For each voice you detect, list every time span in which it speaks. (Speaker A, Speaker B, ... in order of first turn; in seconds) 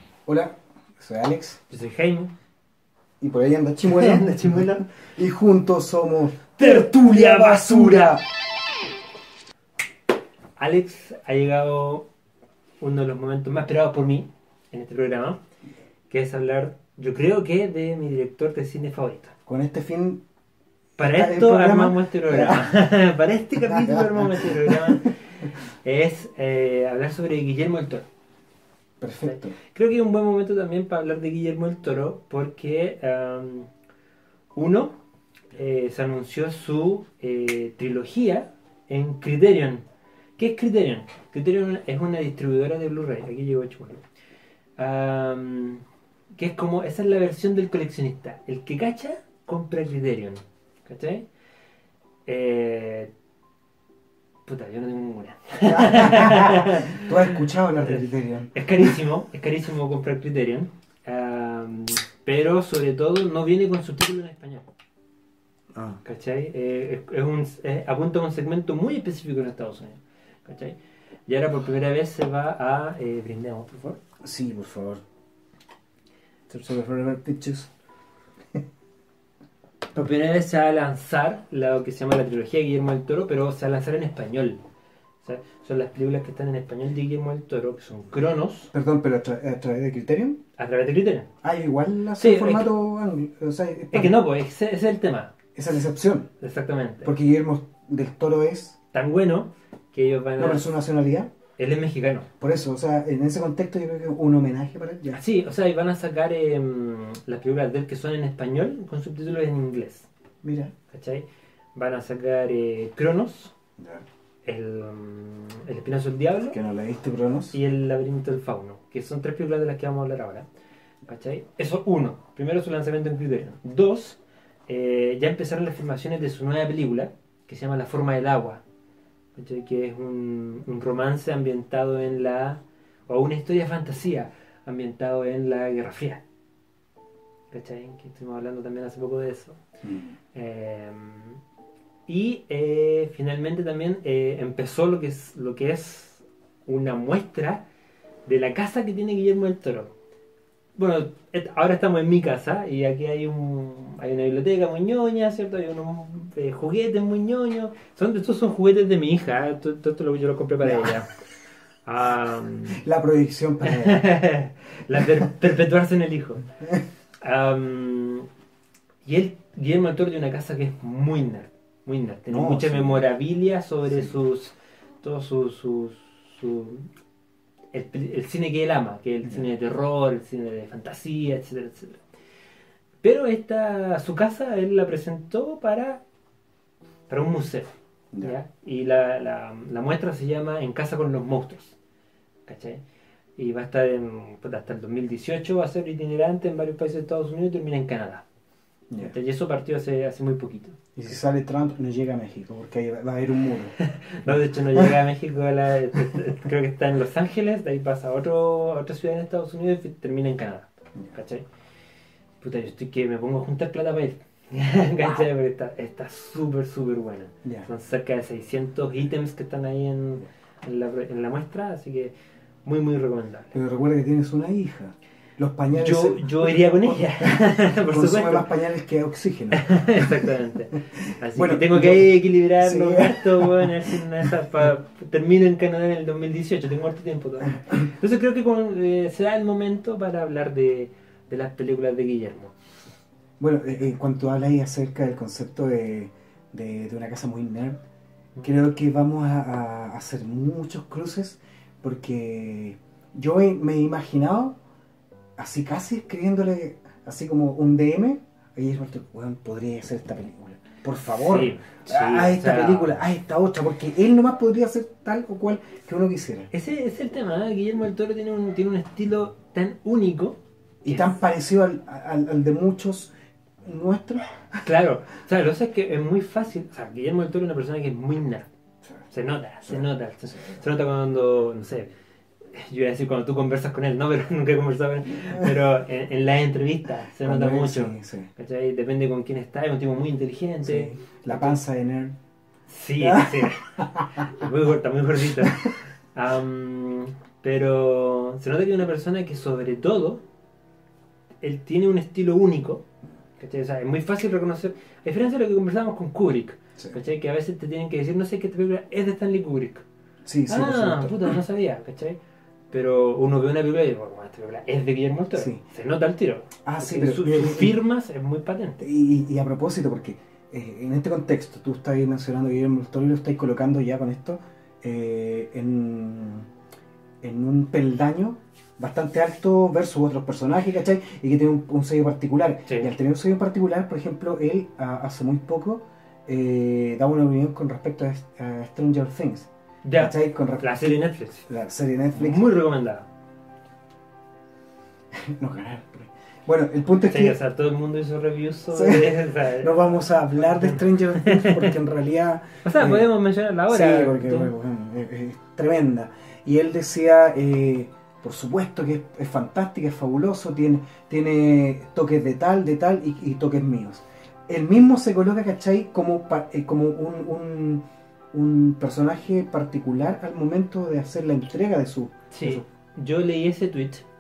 Speaker A: 0.2-1.6, 3.2-8.2, 19.4-20.2, 21.0-22.7, 23.6-25.1, 29.0-29.6, 55.6-59.0, 65.7-66.0, 74.2-75.0, 76.5-77.7, 88.7-90.4, 91.4-94.2, 95.5-96.3, 97.0-98.8, 100.4-101.3, 102.4-105.2, 110.4-110.7, 113.8-114.1, 116.5-117.6, 139.8-140.2, 160.6-161.0, 162.7-164.0, 165.0-165.3, 166.6-166.8, 172.3-173.0, 173.8-174.2, 198.9-199.1, 200.9-203.8, 204.2-205.0, 217.4-217.7, 223.5-230.2, 230.9-234.0, 243.4-247.8, 248.4-254.6, 255.4-266.5, 270.8-273.1, 273.6-274.5, 279.6-280.6, 287.2-288.3, 290.6-292.2, 293.0-294.3, 310.2-311.4, 315.3-315.6, 316.6-317.8, 318.8-326.5, 327.2-342.5, 345.1-347.4, 348.7-353.1, 353.7-372.6
Speaker B: 1.7-2.3, 3.9-4.8, 6.6-8.2, 10.6-12.1, 12.8-15.4, 16.1-19.3, 21.0-28.1, 29.2-33.7, 34.5-35.0, 35.5-39.8, 40.4-44.0, 44.8-45.8, 46.3-51.3, 52.2-53.1, 54.5-57.1, 58.5-64.7, 66.0-70.8, 71.3-74.0, 80.0-84.6, 85.2-88.7, 90.6-91.3, 92.2-92.7, 93.9-95.3, 96.4-97.1, 98.9-100.7, 101.6-102.3, 105.1-110.1, 110.9-113.5, 114.5-116.6, 117.5-120.5, 121.1-128.6, 129.3-136.2, 137.5-139.6, 140.3-141.4, 142.1-147.6, 148.2-149.9, 150.8-161.1, 161.8-162.8, 163.6-166.4, 167.2-168.3, 169.0-176.9, 177.7-182.0, 183.0-186.0, 187.1-191.8, 192.5-192.8, 193.4-198.2, 199.0-200.8, 203.8-211.4, 212.4-222.1, 222.6-223.6, 225.7-228.5, 229.5-242.5, 261.1-263.0, 266.5-271.1, 274.6-278.5, 279.1-281.9, 282.5-291.6, 292.7-300.2, 301.4-302.8, 303.4-309.8, 310.5-312.2, 312.7-318.9, 339.8-341.4, 342.1-343.1, 347.1-349.7, 350.3-351.7, 352.6-354.5, 372.3-374.1